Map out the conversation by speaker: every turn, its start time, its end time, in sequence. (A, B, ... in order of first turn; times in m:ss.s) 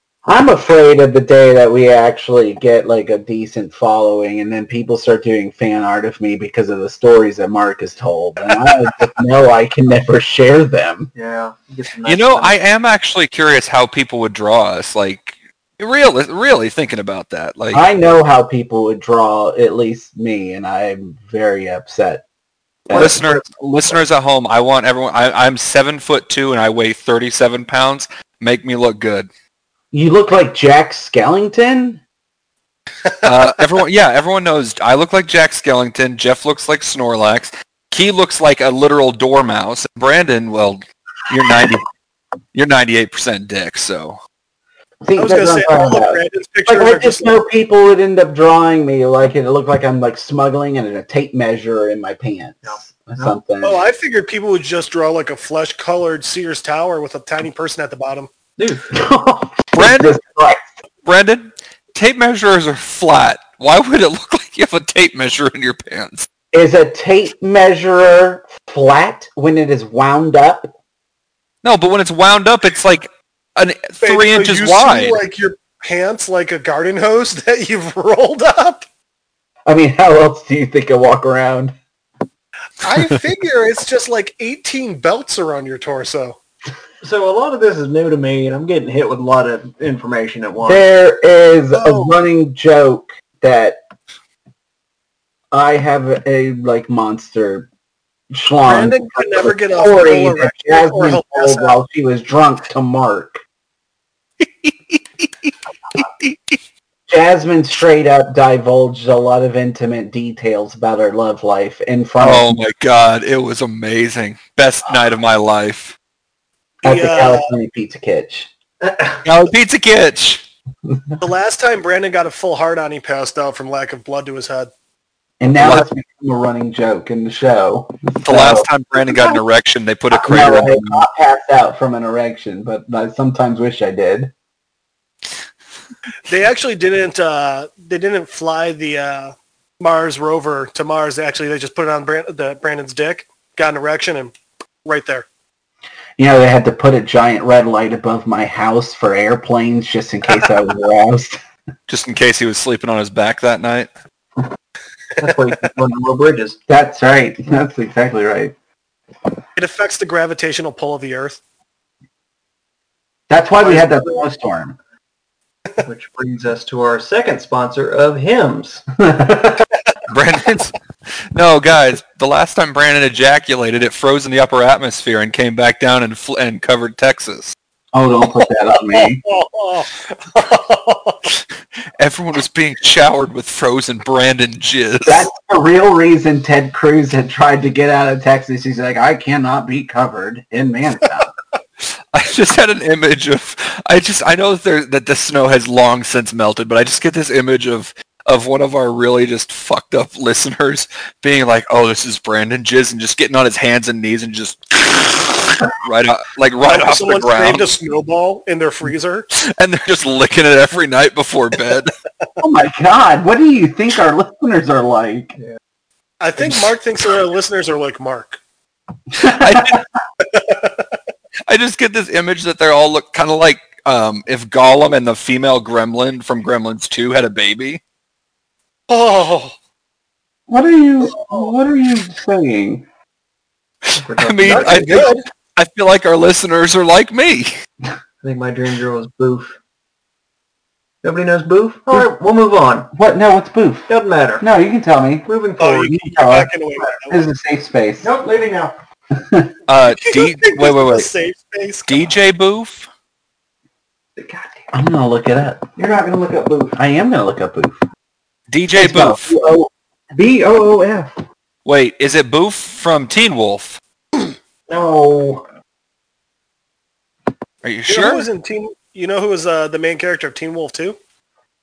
0:00.3-0:11.1 A
0:11.1-0:12.6 B
0:12.0-0:17.8 C
0:17.7-0:22.2 A
0:22.9-0:23.2 A
0:22.9-0:24.0 B
0:22.9-0:29.3 C
0:29.9-0:32.0 A
0:33.2-0:41.8 C
0:42.5-0:44.2 C
0:45.0-0:53.8 A
0:45.2-0:47.3 D
0:52.6-0:53.4 B
0:53.6-0:58.3 D
0:58.6-0:59.0 B
0:58.9-1:00.6 A
0:59.8-1:00.2 C
1:01.0-1:06.3 C
1:06.5-1:10.7 A
1:11.6-1:15.2 C
1:14.0-1:18.8 D
1:19.7-1:21.7 A
1:22.8-1:26.4 D
1:27.0-1:30.9 B
1:30.6-1:33.8 A
1:31.7-1:32.1 D
1:35.5-1:37.7 A
1:38.3-1:43.4 A
1:38.6-1:41.8 D
1:44.6-1:45.0 C
1:46.0-1:46.5 C
1:47.1-1:52.5 A
1:52.2-1:56.0 C
1:56.8-1:57.5 D
1:56.8-1:58.5 A
1:58.8-1:59.2 B
1:59.2-2:00.4 C
2:01.2-2:04.7 D
2:05.4-2:09.4 A
2:05.6-2:05.8 C
2:08.2-2:11.0 C
2:10.1-2:14.3 A
2:16.3-2:24.3 D
2:24.8-2:25.3 D
2:26.2-2:31.4 A
2:31.9-2:33.9 C
2:35.2-2:36.6 B
2:36.7-2:38.5 A
2:39.6-2:41.4 D
2:43.3-2:44.8 A
2:45.8-2:48.9 B
2:49.0-2:49.7 A
2:50.1-2:50.8 C
2:51.3-2:57.6 C
2:57.9-2:59.2 A
2:58.9-3:01.3 D
3:02.0-3:05.3 C
3:05.0-3:11.3 A
3:11.8-3:27.7 C
3:26.6-3:29.3 D
3:29.3-3:31.9 C
3:32.4-3:35.4 A
3:36.2-3:38.4 D
3:39.2-3:39.8 C
3:39.2-3:39.8 A
3:40.4-3:40.6 D
3:41.5-3:47.8 C
3:48.9-3:49.5 D
3:50.5-3:52.9 A
3:51.2-3:51.5 D
3:53.8-3:57.6 C
3:54.0-3:55.1 B
3:54.5-3:55.2 D
3:58.2-3:59.6 B
4:01.0-4:02.9 B
4:02.9-4:05.3 A
4:03.9-4:04.5 B
4:05.2-4:06.0 B
4:05.6-4:07.2 D
4:05.8-4:08.1 A
4:08.0-4:08.8 B
4:09.2-4:09.5 A
4:09.7-4:11.1 C
4:10.0-4:12.1 D
4:11.9-4:12.9 C
4:14.2-4:14.7 B
4:14.7-4:15.7 A
4:15.8-4:16.8 B
4:16.8-4:17.8 A
4:18.5-4:19.3 C
4:18.8-4:19.7 A
4:20.1-4:21.2 B
4:21.6-4:23.8 C
4:24.7-4:25.4 B
4:27.6-4:28.3 C
4:27.9-4:31.0 D